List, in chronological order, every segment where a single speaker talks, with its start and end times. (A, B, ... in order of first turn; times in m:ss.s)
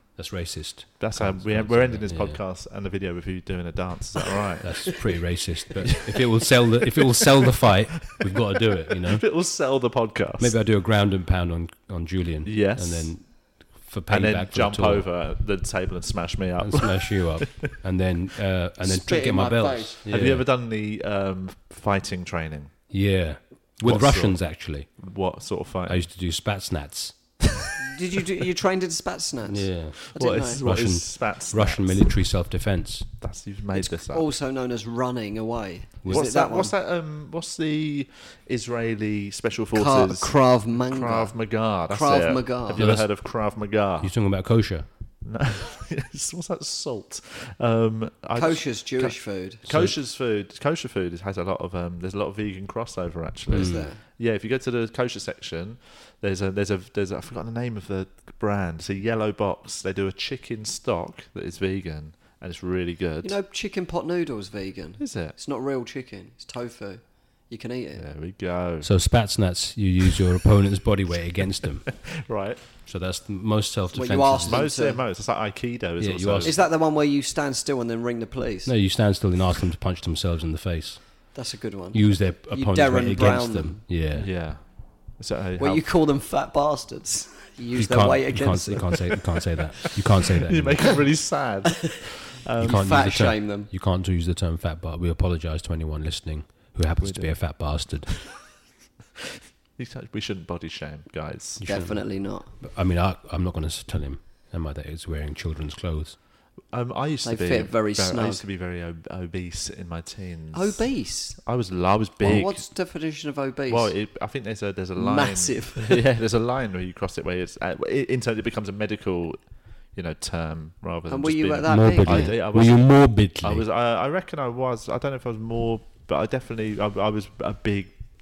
0:00.2-0:02.4 A
0:01.0-0:04.9 B
0:04.6-0:09.2 A
0:05.8-0:10.6 B
0:10.4-0:15.1 A
0:12.4-0:13.1 B
0:14.1-0:17.7 B
0:16.6-0:20.4 A
0:18.8-0:20.0 C
0:20.1-0:22.7 B
0:22.9-0:24.9 A
0:23.8-0:24.4 B
0:25.0-0:26.0 B
0:25.9-0:27.2 A
0:27.8-0:30.6 C
0:29.5-0:30.1 A
0:30.1-0:32.1 B
0:30.6-0:33.1 A
0:33.2-0:34.2 B
0:33.7-0:36.7 C
0:36.1-0:44.1 B
0:39.7-0:41.3 C
0:41.9-0:42.8 C
0:42.8-0:43.1 A
0:44.0-0:44.8 A
0:45.2-1:03.4 B
0:48.3-0:49.6 C
0:49.7-0:49.9 A
0:53.5-0:53.9 A
0:53.5-0:54.0 C
1:03.2-1:08.0 C
1:05.0-1:05.3 B
1:08.0-1:08.9 B
1:08.8-1:12.0 A
1:11.9-1:12.6 B
1:12.8-1:14.6 A
1:13.9-1:15.0 C
1:14.4-1:16.6 B
1:16.0-1:16.6 A
1:16.4-1:18.7 C
1:18.6-1:21.3 A
1:21.3-1:23.8 C
1:21.9-1:24.3 A
1:24.1-1:25.8 B
1:25.6-1:29.1 C
1:27.8-1:31.0 A
1:29.4-1:32.8 B
1:32.6-1:33.7 C
1:32.6-1:38.2 A
1:37.0-1:37.3 B
1:39.2-1:41.6 B
1:41.6-1:42.0 A
1:41.6-1:42.5 C
1:42.6-1:46.2 A
1:46.7-1:52.6 B
1:47.2-1:48.4 C
1:50.5-1:51.4 C
1:52.2-1:53.9 C
1:53.7-1:59.4 B
1:55.0-1:56.0 C
1:59.9-2:02.8 B
2:01.1-2:02.4 C
2:01.6-2:03.6 A
2:03.4-2:07.9 B